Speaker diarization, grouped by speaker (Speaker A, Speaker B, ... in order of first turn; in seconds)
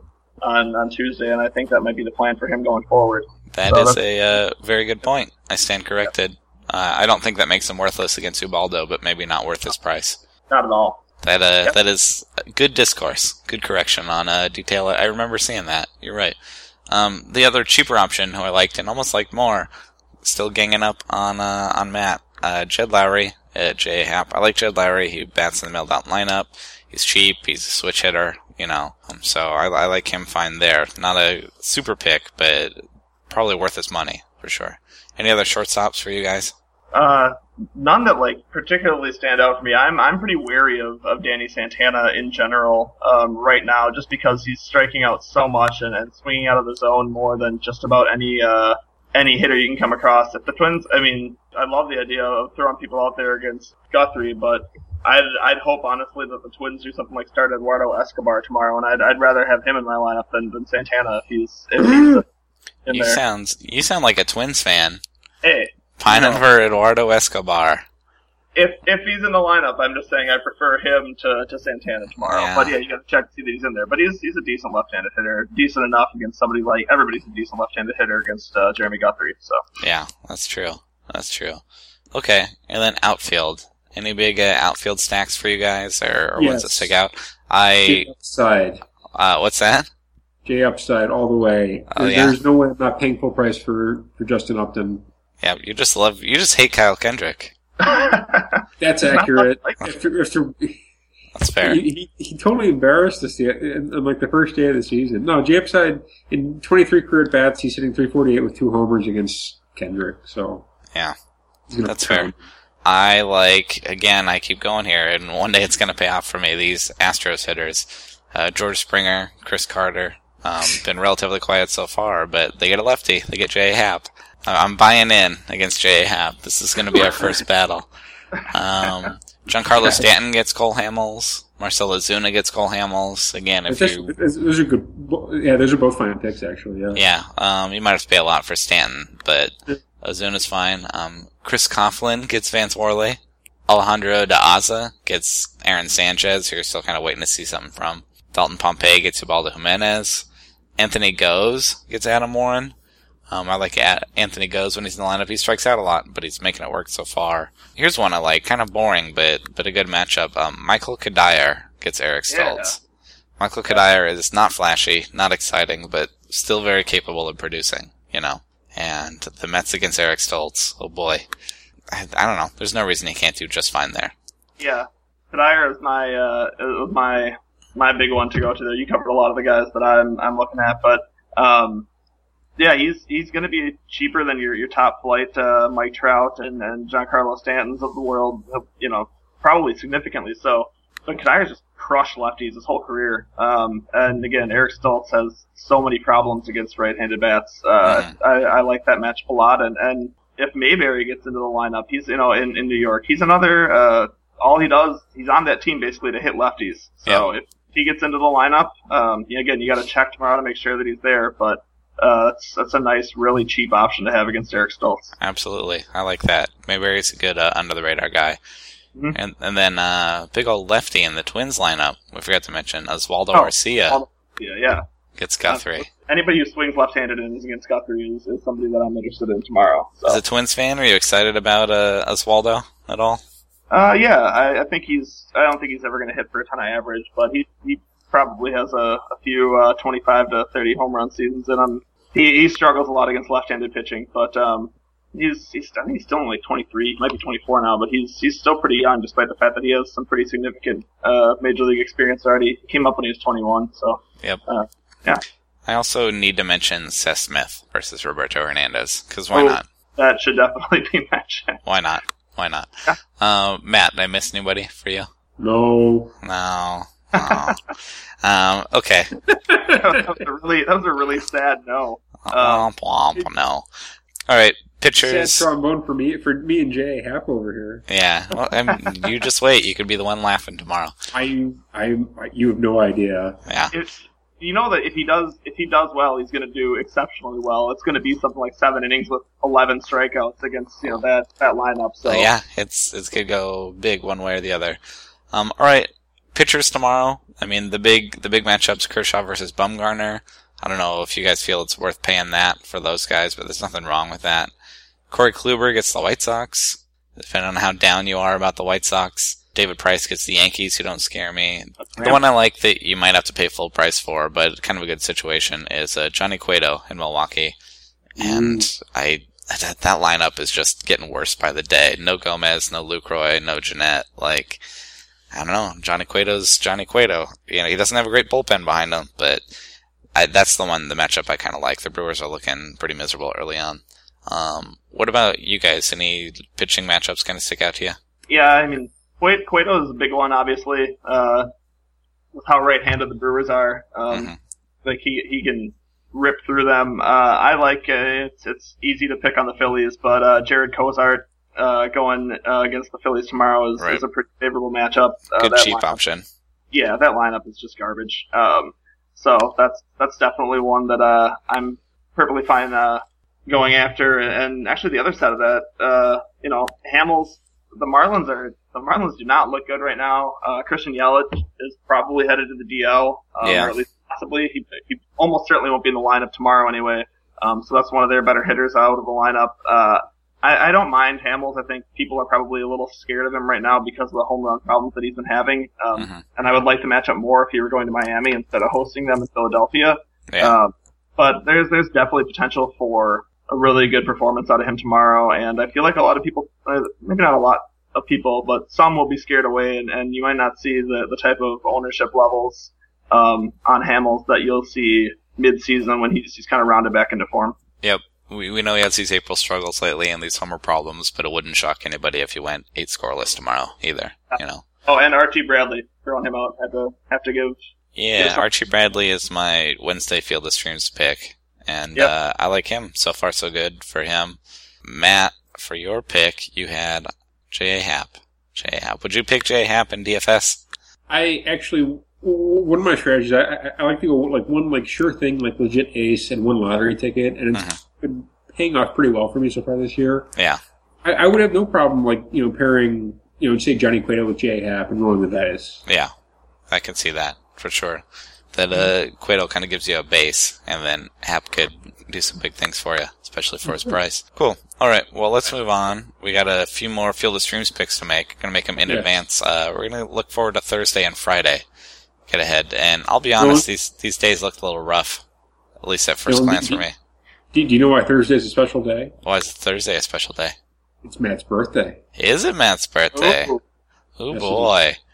Speaker A: 0.4-4.0, 10.5-11.0, 36.9-62.2, 62.9-63.2, 65.4-65.7, 68.5-79.6, 97.8-99.8, 162.3-162.7, 174.6-181.9, 182.6-215.1, 223.3-224.8, 225.5-230.2, 233.7-255.2, 259.3-261.6, 267.1-267.6, 269.7-272.7, 278.7-278.9, 283.7-292.3, 311.8-312.2, 338.3-341.5, 342.3-344.3, 344.8-356.0, 356.7-407.6, 414.3-417.6, 418.2-418.4
Speaker B: 3.5-10.2, 11.2-16.4, 16.9-19.7, 20.2-36.5, 62.9-65.0, 66.0-67.8, 72.2-72.7, 79.8-81.6, 82.1-88.1, 89.1-89.9, 91.9-92.4, 95.4-97.5, 101.3-101.8, 111.8-112.3, 112.8-127.9, 128.5-134.1, 136.9-150.2, 150.8-152.7, 153.3-162.8, 163.4-171.2, 171.9-174.1, 197.8-198.1, 215.2-218.4, 219.1-224.0, 225.2-225.9, 230.1-233.2, 255.7-259.6, 261.6-265.1, 266.2-269.1, 272.2-273.6, 274.3-275.4, 277.9-280.9, 283.5-283.7, 292.1-294.8, 295.3-304.5, 305.1-317.6, 318.2-324.6, 325.3-329.4, 330.1-338.0, 344.1-344.4, 355.3-356.2, 373.4-373.7, 385.9-386.2, 390.3-390.6, 407.8-414.6, 417.9-430.6, 446.7-461.6, 462.3-465.2, 465.8-466.9, 469.2-470.6, 472.1-473.5, 474.2-475.0
Speaker C: 61.8-62.2, 66.1-66.4, 86.3-86.9, 87.8-88.8, 90.4-95.0, 98.8-100.8, 101.6-110.7, 111.7-112.4, 129.8-130.0, 133.7-137.0, 265.4-266.1, 269.3-269.8, 275.0-277.8, 281.1-283.4, 318.2-318.7, 431.1-440.3, 441.0-445.8, 453.6-453.9, 458.9-459.2, 463.4-463.7, 466.3-466.8, 467.5-469.1, 471.0-472.0, 473.1-473.6, 474.3-474.7